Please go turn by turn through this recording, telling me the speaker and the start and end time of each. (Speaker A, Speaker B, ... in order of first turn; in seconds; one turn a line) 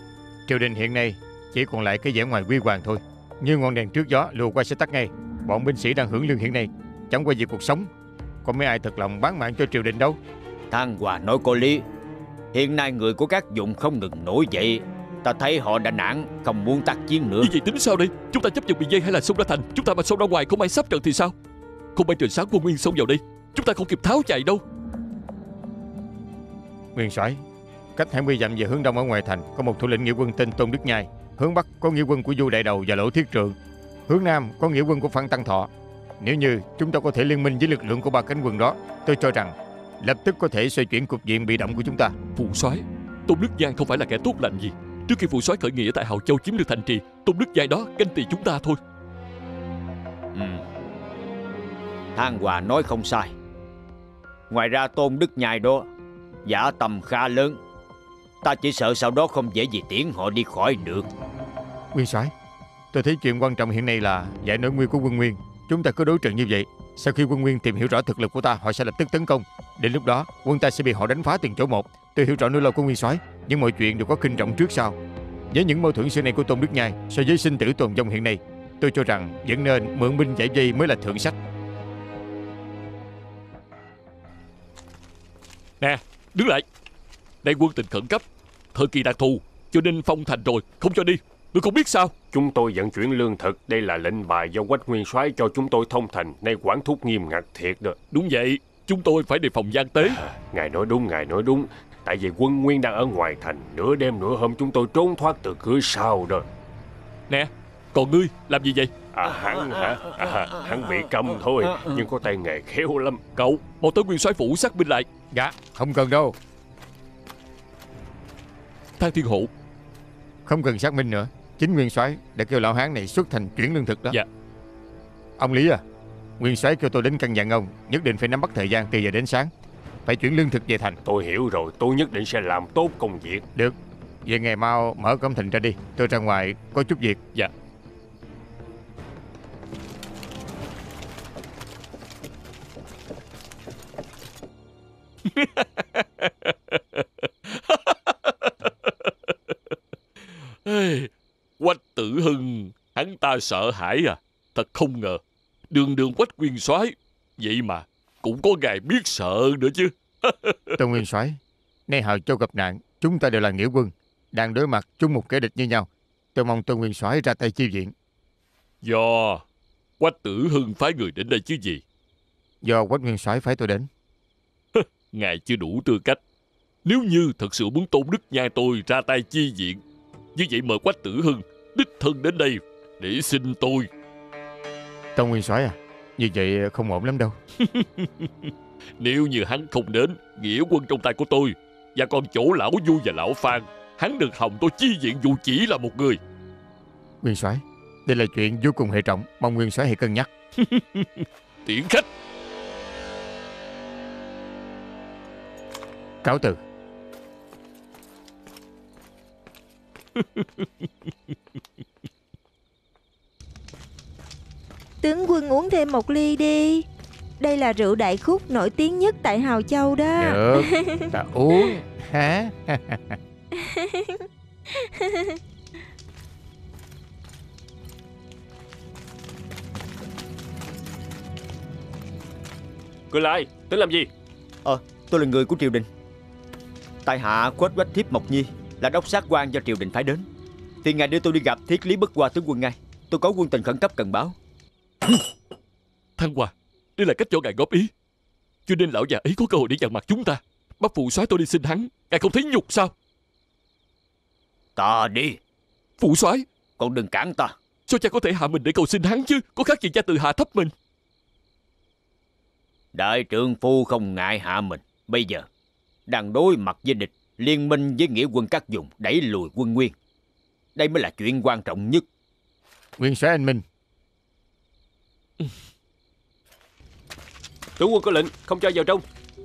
Speaker A: 0.5-7.9
Speaker A: 8.4-10.2
Speaker B: 10.7-11.8
Speaker B: 12.5-17.5
Speaker C: 17.4-21.3
Speaker C: 21.9-24.6
Speaker A: 26.9-27.4
Speaker A: 28.0-33.6
Speaker A: 34.1-42.1
Speaker C: 42.4-48.8
Speaker B: 50.3-50.6
Speaker B: 52.2-53.3
Speaker B: 54.5-55.9
Speaker B: 56.5-57.6
Speaker B: 58.4-61.1
Speaker A: 61.9-62.3
Speaker A: 62.9-75.0
Speaker A: 75.5-81.4
Speaker C: 85.8-86.6
Speaker C: 87.4-92.1
Speaker D: 92.3-98.0
Speaker C: 98.1-100.2
Speaker D: 100.0-106.5
Speaker C: 107.3-108.9
Speaker D: 109.1-113.2
Speaker B: 109.4-110.6
Speaker B: 111.6-112.0
Speaker C: 113.4-115.1
Speaker A: 115.3-116.4
Speaker C: 119.0-119.5
Speaker A: 120.5-124.2
Speaker A: 125.4-125.8
Speaker A: 126.4-129.5
Speaker A: 130.1-131.0
Speaker D: 131.1-133.4
Speaker A: 133.6-137.2
Speaker C: 145.3-149.7
Speaker C: 150.7-160.8
Speaker A: 160.8-167.9
Speaker C: 168.8-169.4
Speaker C: 170.0-171.8
Speaker A: 172.6-173.9
Speaker C: 174.7-176.2
Speaker C: 176.8-179.8
Speaker C: 180.4-183.9
Speaker A: 185.2-187.4
Speaker C: 187.6-196.2
Speaker A: 197.2-200.3
Speaker C: 200.6-202.1
Speaker A: 206.2-206.6
Speaker C: 210.2-210.9
Speaker E: 215.0-216.8
Speaker E: 217.4-220.8
Speaker A: 220.2-223.2
Speaker D: 233.1-234.1
Speaker B: 234.7-235.9
Speaker B: 237.1-240.3
Speaker B: 240.8-244.4
Speaker C: 246.2-247.9
Speaker C: 248.7-252.9
Speaker B: 254.8-255.4
Speaker C: 256.0-256.5
Speaker B: 256.8-257.6
Speaker C: 257.9-260.7
Speaker B: 262.9-265.5
Speaker B: 266.1-269.9
Speaker B: 270.8-272.1
Speaker A: 273.0-273.6
Speaker D: 277.8-279.0